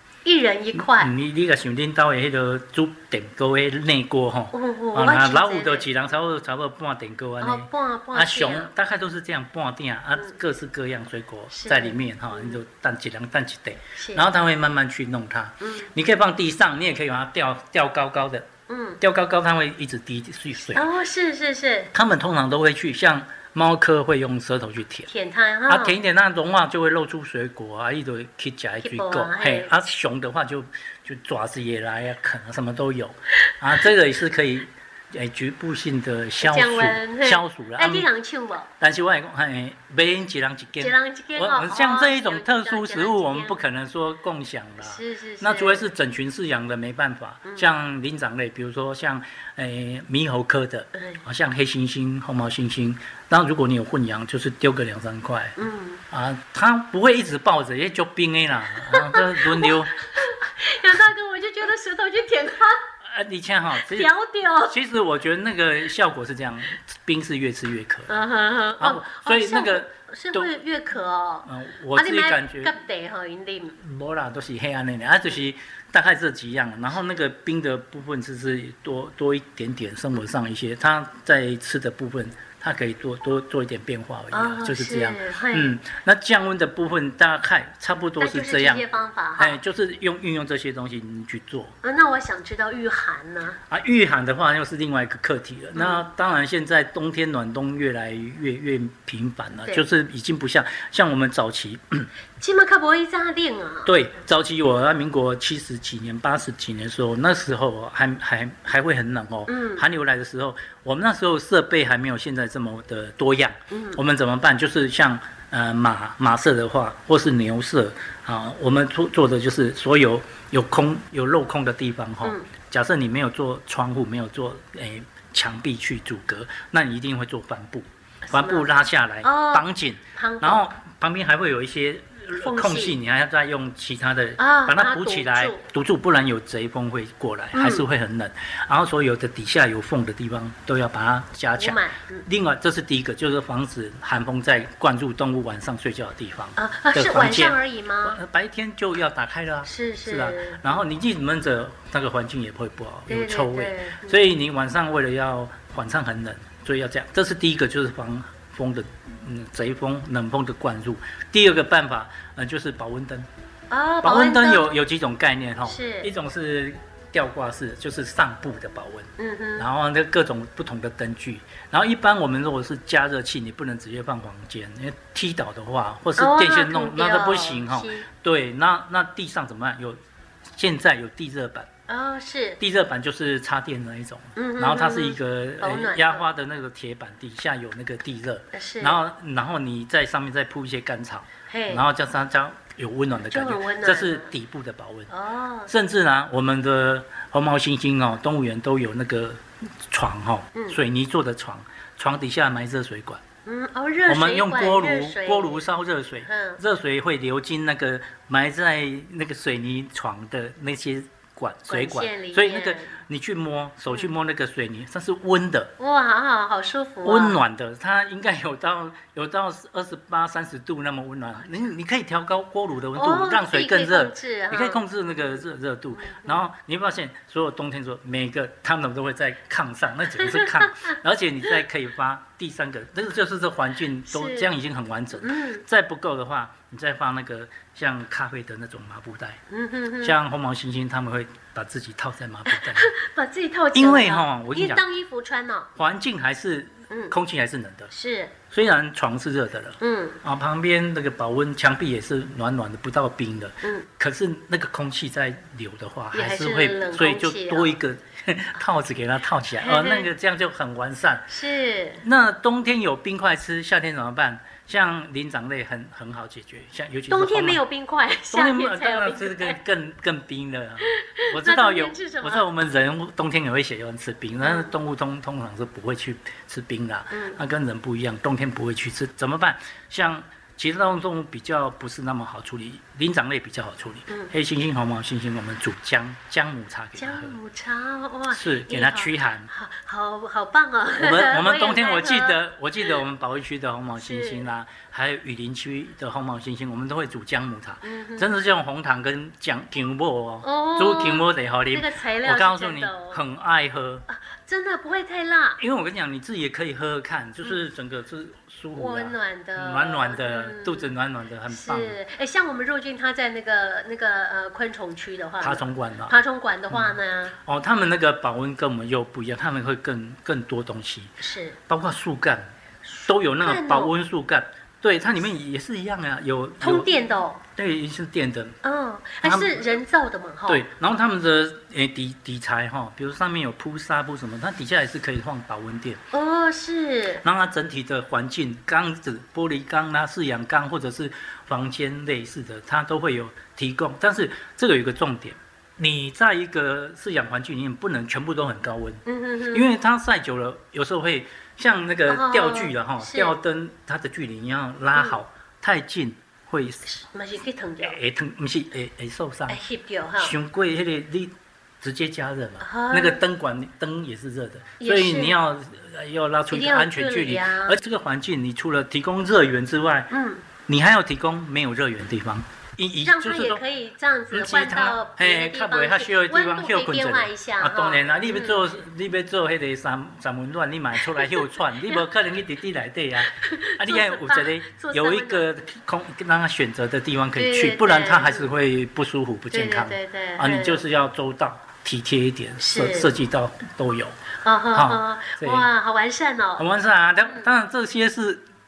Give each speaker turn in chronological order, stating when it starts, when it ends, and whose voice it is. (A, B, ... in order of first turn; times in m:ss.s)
0:00.2-0:01.1 A
0:00.8-0:18.5 B
0:04.5-0:05.9 A
0:07.4-0:08.7 A
0:11.5-0:12.6 A
0:14.0-0:14.3 A
0:15.6-0:15.9 A
0:18.7-0:19.0 A
0:19.0-0:20.9 B
0:20.7-0:21.9 A
0:21.9-0:25.1 B
0:25.1-0:26.0 A
0:25.7-0:38.1 B
0:28.8-0:29.7 A
0:36.4-0:38.7 A
0:38.8-0:55.6 B
0:40.8-0:43.6 A
0:44.8-0:45.9 A
0:47.5-0:47.7 A
0:50.9-0:51.2 A
0:55.6-0:56.0 A
0:56.1-1:00.0 B
0:58.9-1:02.8 A
1:03.0-1:04.1 B
1:03.8-1:04.8 A
1:04.7-1:08.1 B
1:08.1-1:13.8 A
1:08.8-1:10.5 B
1:11.5-1:12.8 B
1:13.8-1:28.8 B
1:24.3-1:25.8 A
1:28.2-1:29.6 A
1:29.4-1:31.7 B
1:31.8-1:33.6 A
1:33.7-1:42.1 B
1:35.8-1:36.0 A
1:42.4-1:44.0 A
1:43.9-2:43.3 B
1:49.5-1:49.8 A
1:53.7-1:54.0 A
2:08.3-2:08.7 A
2:09.2-2:10.6 A
2:12.4-2:13.0 A
2:14.4-2:15.6 A
2:17.5-2:17.9 A
2:21.6-2:22.3 A
2:26.6-2:28.2 A
2:29.6-2:30.8 A
2:33.1-2:34.2 A
2:43.7-2:44.8 A
2:44.0-3:00.0 B
2:45.6-2:46.1 A
2:49.2-2:49.7 A
2:56.2-2:58.1 A
3:00.6-3:01.7 B
3:01.9-3:02.6 A
3:02.6-3:15.1 B
3:04.4-3:06.3 A
3:08.5-3:09.0 A
3:11.5-3:11.8 A
3:13.3-3:14.3 A
3:15.1-3:15.7 A
3:15.7-3:23.2 B
3:23.5-3:25.6 A
3:24.1-3:35.7 B
3:26.2-3:26.6 A
3:31.7-3:33.0 A
3:35.8-3:37.4 A
3:37.0-3:59.4 B
3:43.0-3:44.8 A
3:45.9-3:46.4 A
3:50.3-3:50.9 A
3:54.1-3:54.5 A
3:55.2-3:55.6 A
3:59.5-4:00.1 A
4:00.0-4:02.9 B
4:02.5-4:05.7 A
4:03.7-4:04.8 B
4:05.8-4:07.9 B
4:07.9-4:08.3 A
4:08.5-4:21.3 B
4:09.8-4:10.2 A
4:16.1-4:17.7 A
4:19.6-4:20.1 A
4:21.3-4:22.0 A
4:22.0-4:27.6 B
4:27.1-4:29.6 A
4:28.3-4:47.4 B
4:30.8-4:32.4 A
4:34.4-4:34.7 A
4:37.1-4:37.4 A
4:47.0-4:53.0 A
4:48.3-4:49.5 B
4:51.0-5:04.1 B
4:54.0-4:54.5 A
4:57.8-4:58.3 A
5:00.4-5:03.2 A
5:04.1-5:05.6 A
5:05.6-5:12.0 B
5:08.7-5:10.9 A
5:11.5-5:17.4 A
5:15.4-5:16.2 B
5:16.7-5:21.1 B
5:21.2-5:21.6 A
5:21.7-5:27.0 B
5:23.4-5:23.9 A
5:26.6-5:27.4 A
5:27.6-5:28.6 B
5:28.6-5:30.6 A
5:29.2-5:29.7 B
5:30.5-5:36.0 B
5:36.1-5:37.2 A
5:37.2-5:56.9 B
5:49.1-5:49.6 A
5:52.1-5:53.4 A
5:56.8-5:58.0 A
5:57.8-5:59.6 B
5:59.5-6:00.4 A
6:00.2-6:10.1 B
6:02.6-6:03.2 A
6:04.8-6:05.4 A
6:06.5-6:07.8 A
6:10.1-6:10.4 A
6:10.7-6:13.6 B
6:13.0-6:18.6 A
6:14.3-6:34.2 B
6:21.0-6:21.3 A
6:23.3-6:25.5 A
6:27.4-6:28.5 A
6:29.5-6:30.8 A
6:32.6-6:33.1 A
6:34.4-6:36.6 A
6:34.7-6:35.7 B
6:36.6-6:38.4 B